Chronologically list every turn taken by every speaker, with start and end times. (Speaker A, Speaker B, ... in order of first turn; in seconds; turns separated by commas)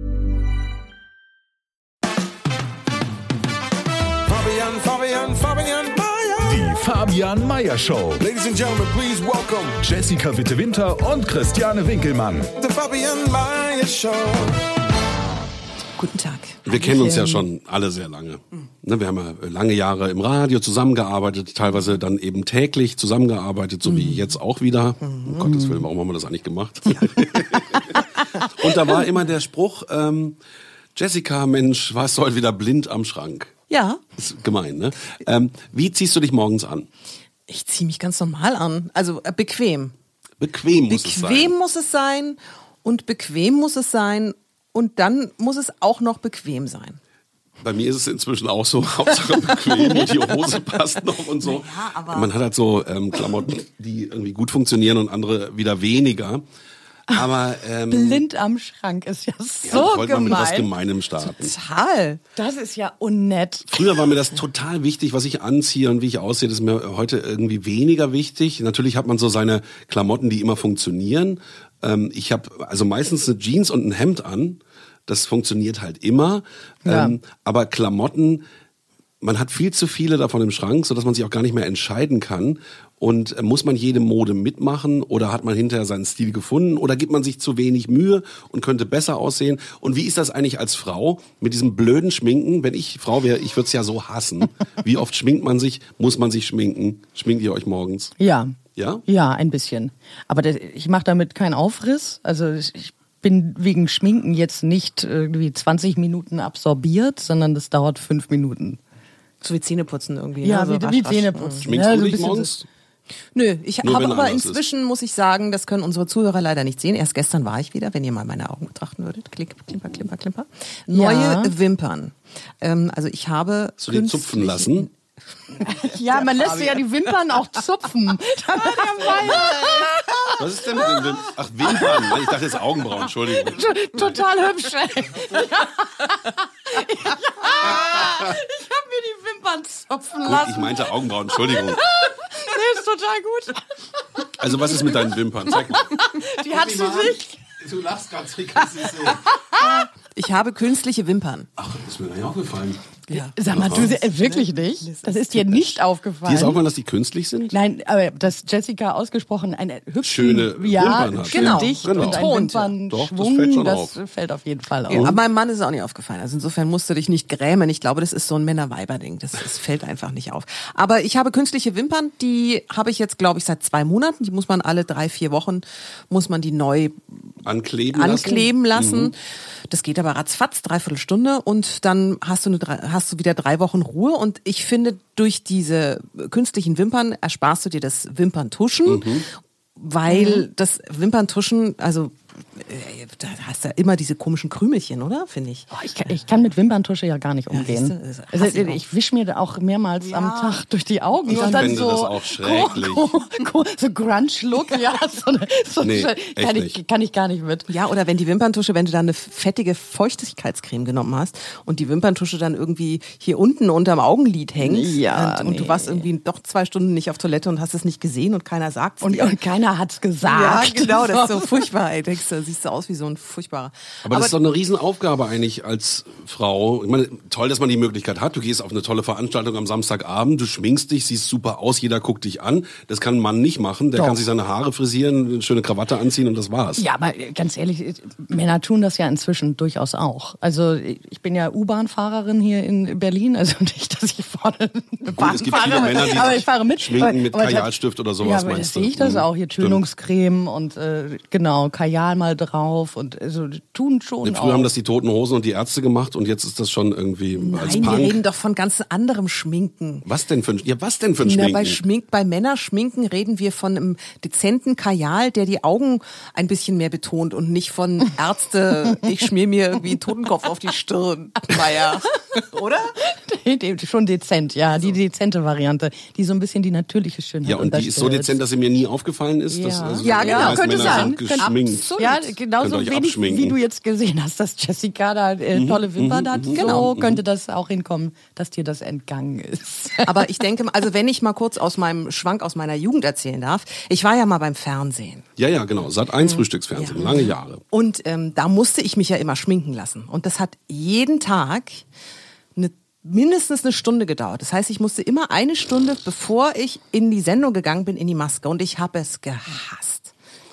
Speaker A: 4.3-6.6, Speaker B: 6.4-8.2, Speaker A: 8.2-9.8, Speaker B: 9.8-12.5, Speaker A: 12.6-14.6, Speaker C: 16.0-17.4, Speaker D: 16.6-30.4, Speaker C: 23.9-24.2, Speaker C: 25.1-25.4, Speaker E: 25.4-25.8, Speaker D: 30.9-33.5, Speaker C: 33.7-34.0, Speaker D: 34.2-36.9, Speaker C: 37.5-39.9, Speaker D: 40.4-41.5, Speaker C: 40.8-47.0, Speaker D: 47.6-56.4, Speaker C: 51.4-52.3, Speaker D: 57.1-58.2, Speaker E: 57.9-60.7, Speaker D: 59.6-61.5, Speaker C: 61.2-62.2, Speaker E: 62.4-63.8, Speaker D: 63.7-78.4, Speaker E: 76.8-77.2, Speaker D: 79.2-98.1, Speaker E: 98.2-108.8, Speaker D: 98.8-99.0, Speaker C: 109.4-111.6, Speaker E: 110.4-112.5, Speaker D: 111.6-112.7, Speaker C: 113.3-124.9, Speaker D: 113.8-114.6, Speaker E: 120.9-121.5, Speaker D: 123.8-124.9, Speaker E: 125.6-130.3, Speaker C: 126.1-126.8, Speaker C: 128.9-129.7, Speaker D: 130.4-134.1, Speaker E: 131.7-132.2, Speaker E: 133.3-145.0, Speaker D: 140.2-141.8, Speaker D: 144.4-145.9, Speaker E: 145.7-147.4, Speaker D: 146.5-149.2, Speaker E: 148.9-149.6, Speaker C: 149.6-151.5, Speaker D: 151.6-152.8, Speaker C: 153.1-155.7, Speaker E: 153.1-156.6, Speaker D: 153.5-153.9, Speaker D: 156.2-157.5, Speaker E: 157.5-165.1, Speaker D: 160.0-163.9, Speaker C: 161.3-162.7, Speaker D: 164.9-165.2, Speaker C: 164.9-177.2, Speaker D: 177.4-179.1, Speaker C: 177.9-179.2, Speaker C: 179.7-189.1, Speaker D: 188.8-189.3, Speaker C: 189.8-195.7, Speaker E: 190.1-190.4, Speaker E: 195.7-207.7, Speaker C: 197.5-198.8, Speaker C: 200.0-200.6, Speaker C: 201.3-201.7, Speaker D: 201.3-203.1, Speaker D: 205.8-206.8, Speaker C: 207.7-219.3, Speaker E: 214.6-216.1, Speaker E: 219.0-221.4, Speaker C: 220.2-224.3, Speaker D: 224.0-236.8, Speaker E: 233.9-234.2, Speaker E: 236.8-254.7, Speaker D: 245.1-249.8, Speaker C: 245.5-246.0, Speaker D: 254.2-258.2, Speaker E: 257.4-258.2, Speaker C: 257.5-260.0, Speaker D: 260.0-261.8, Speaker C: 261.2-272.9, Speaker E: 273.1-278.4, Speaker D: 277.4-283.6, Speaker E: 279.5-290.2, Speaker C: 280.0-282.3, Speaker D: 285.5-287.2, Speaker C: 286.5-286.8, Speaker C: 290.0-295.2, Speaker D: 295.4-297.6, Speaker C: 296.7-301.9, Speaker C: 302.6-310.1